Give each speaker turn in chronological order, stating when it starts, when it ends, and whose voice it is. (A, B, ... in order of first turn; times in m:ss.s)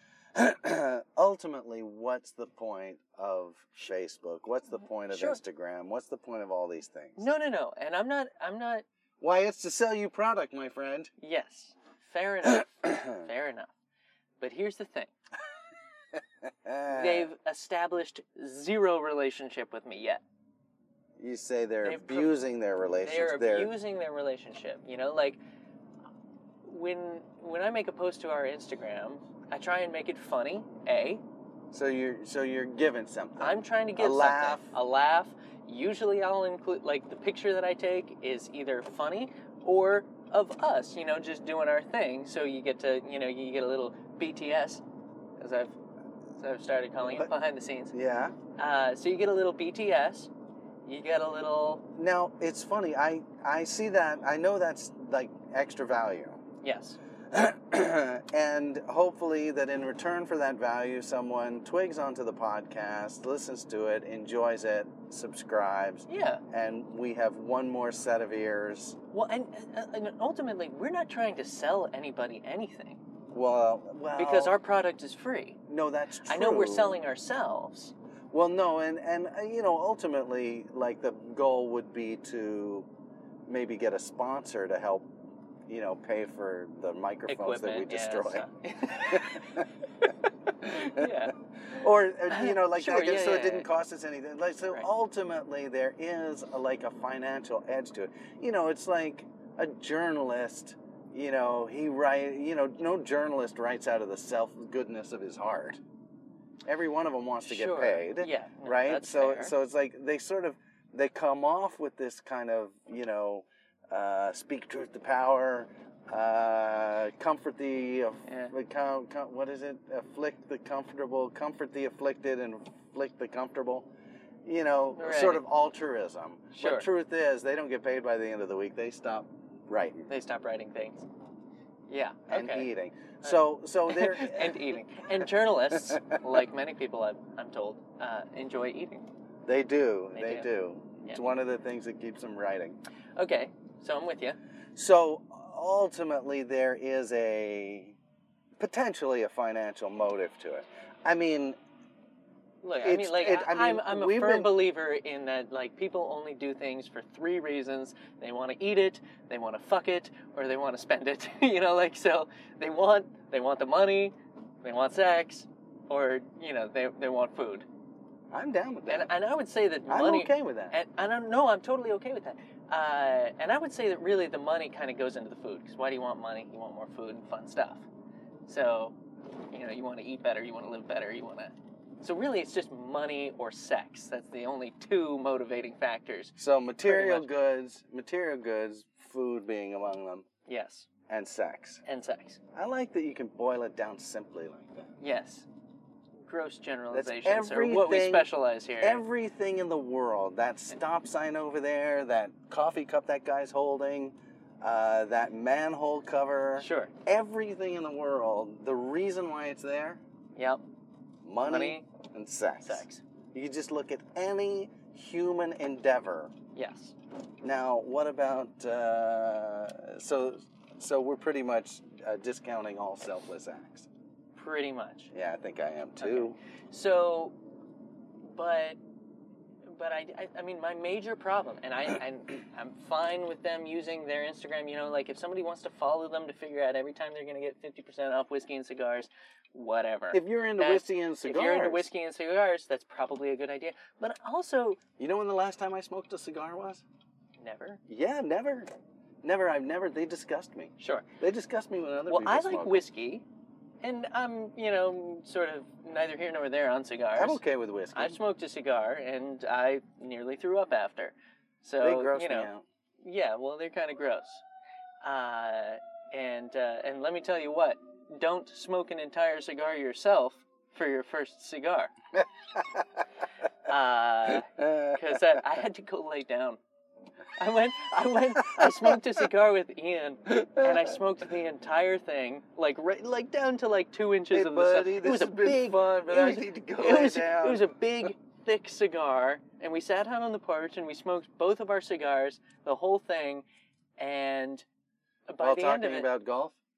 0:00.3-0:07.3 A
0:05.1-0:05.4 B
0:07.2-0:08.8 B
0:09.2-0:11.1 A
0:11.2-0:13.7 B
0:14.4-0:15.1 B
0:16.4-0:17.3 A
0:16.9-0:20.2 B
0:21.2-0:23.7 A
0:21.8-0:22.4 B
0:23.0-0:25.4 B
0:26.6-0:31.2 B
0:31.7-0:34.7 A
0:33.4-0:44.8 B
0:45.4-0:45.8 B
0:46.4-0:47.9 B
0:47.0-0:47.3 A
0:47.9-0:48.4 A
0:48.6-0:50.3 B
0:50.8-0:51.8 B
0:52.0-0:56.4 A
0:56.6-0:57.0 B
0:57.3-1:09.0 A
1:06.1-1:06.4 B
1:09.1-1:13.0 B
1:13.3-1:14.6 A
1:14.2-1:15.6 B
1:15.7-1:17.0 A
1:16.2-1:17.9 B
1:18.3-1:22.9 A
1:23.5-1:25.1 A
1:25.7-1:28.4 A
1:27.3-1:29.7 B
1:29.1-1:29.6 A
1:30.6-1:31.3 B
1:30.6-1:31.2 A
1:31.7-1:45.8 A
1:32.3-1:33.7 B
1:46.6-2:03.9 A
1:47.4-1:49.5 B
1:58.2-1:58.5 B
2:04.4-2:10.1 A
2:05.0-2:05.4 B
2:06.5-2:06.9 B
2:10.1-2:11.0 B
2:11.9-2:12.7 B
2:12.3-2:14.8 A
2:13.2-2:19.0 B
2:19.4-2:22.8 A
2:20.1-2:20.5 B
2:23.2-2:24.4 B
2:24.7-2:28.0 A
2:28.6-2:31.6 A
2:32.6-2:47.6 B
2:32.8-2:34.6 A
2:48.3-2:49.1 A
2:48.9-2:57.8 B
2:49.9-2:50.8 A
2:58.5-2:59.0 B
2:59.5-3:07.3 B
3:06.4-3:10.2 A
3:10.4-3:10.9 B
3:11.1-3:11.8 A
3:11.8-3:12.4 B
3:12.5-3:14.9 A
3:15.0-3:15.5 B
3:16.2-3:19.0 B
3:16.9-3:30.0 A
3:26.6-3:26.9 B
3:30.4-3:30.6 B
3:31.2-3:36.3 A
3:31.4-3:31.8 B
3:32.6-3:33.0 B
3:36.5-3:36.9 B
3:37.4-3:43.9 A
3:44.4-3:45.1 B
3:45.1-3:46.4 A
3:46.0-3:47.3 B
3:48.2-3:48.8 B
3:49.7-4:04.8 B
4:00.1-4:01.9 A
4:05.0-4:06.8 A
4:07.4-4:07.8 B
4:07.9-4:08.7 A
4:09.2-4:12.8 A
4:10.8-4:11.1 B
4:12.1-4:13.2 B
4:13.8-4:17.4 B
4:17.1-4:18.2 A
4:17.9-4:22.5 B
4:21.8-4:22.6 A
4:23.0-4:24.4 B
4:25.0-4:31.9 B
4:33.6-4:36.6 B
4:37.4-4:53.4 B
4:38.6-4:39.0 A
4:40.4-4:40.9 A
4:44.3-4:47.7 A
4:54.0-4:54.6 B
4:55.3-4:56.1 B
4:55.4-4:56.6 A